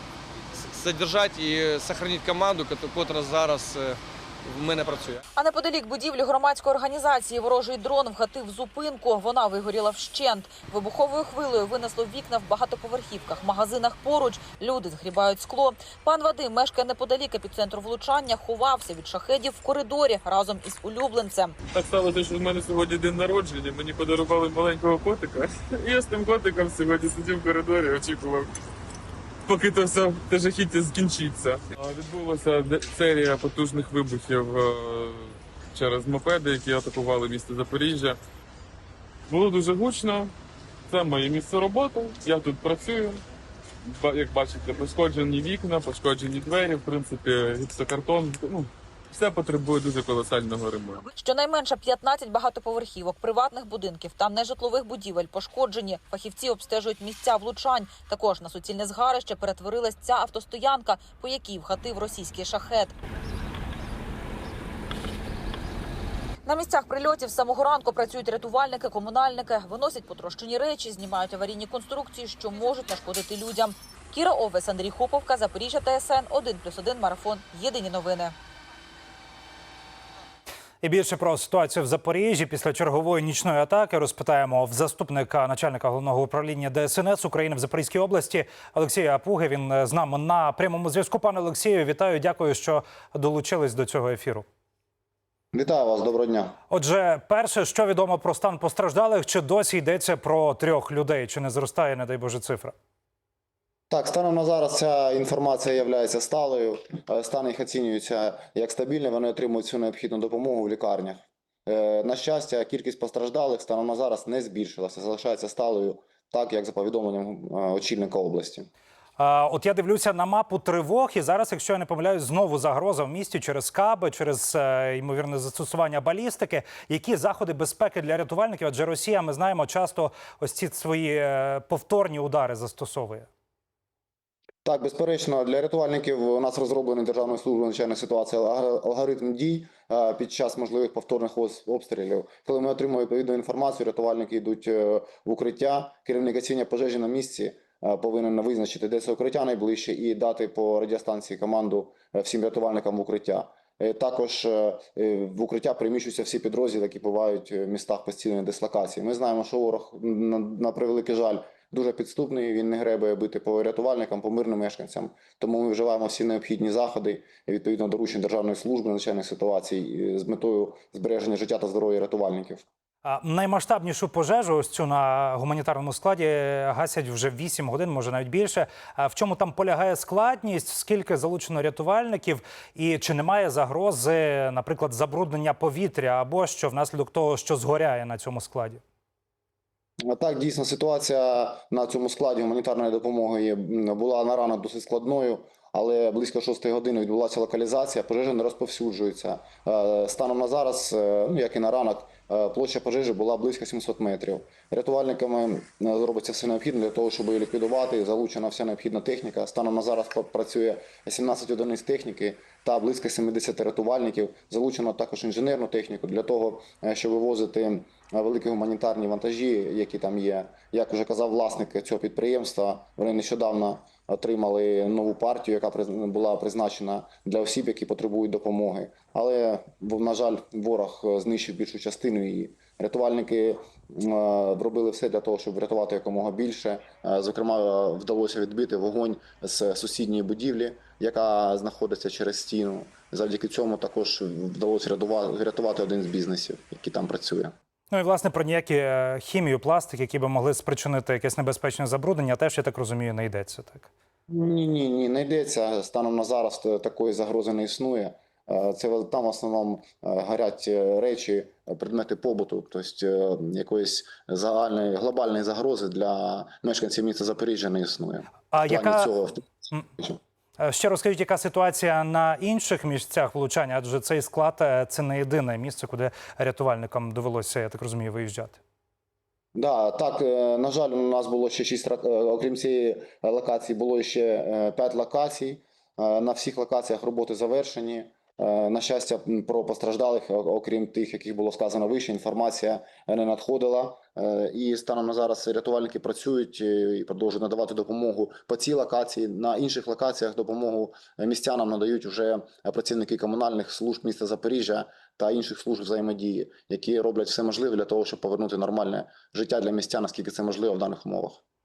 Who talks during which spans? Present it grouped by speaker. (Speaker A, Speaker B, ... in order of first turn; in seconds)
Speaker A: 0.5-5.2
Speaker B: 5.4-21.6, 51.2-62.9, 66.5-78.3
Speaker C: 21.7-28.5, 29.5-38.2, 39.3-40.3, 40.9-43.2, 43.9-51.0
Speaker D: 80.8-94.5, 96.7-102.8, 119.2-133.3, 173.1-188.8, 247.9-253.9, 268.5-269.1, 270.6-278.6
Speaker E: 95.5-96.6, 103.9-118.7, 134.6-172.7, 190.0-247.6, 254.3-269.4, 279.6-311.4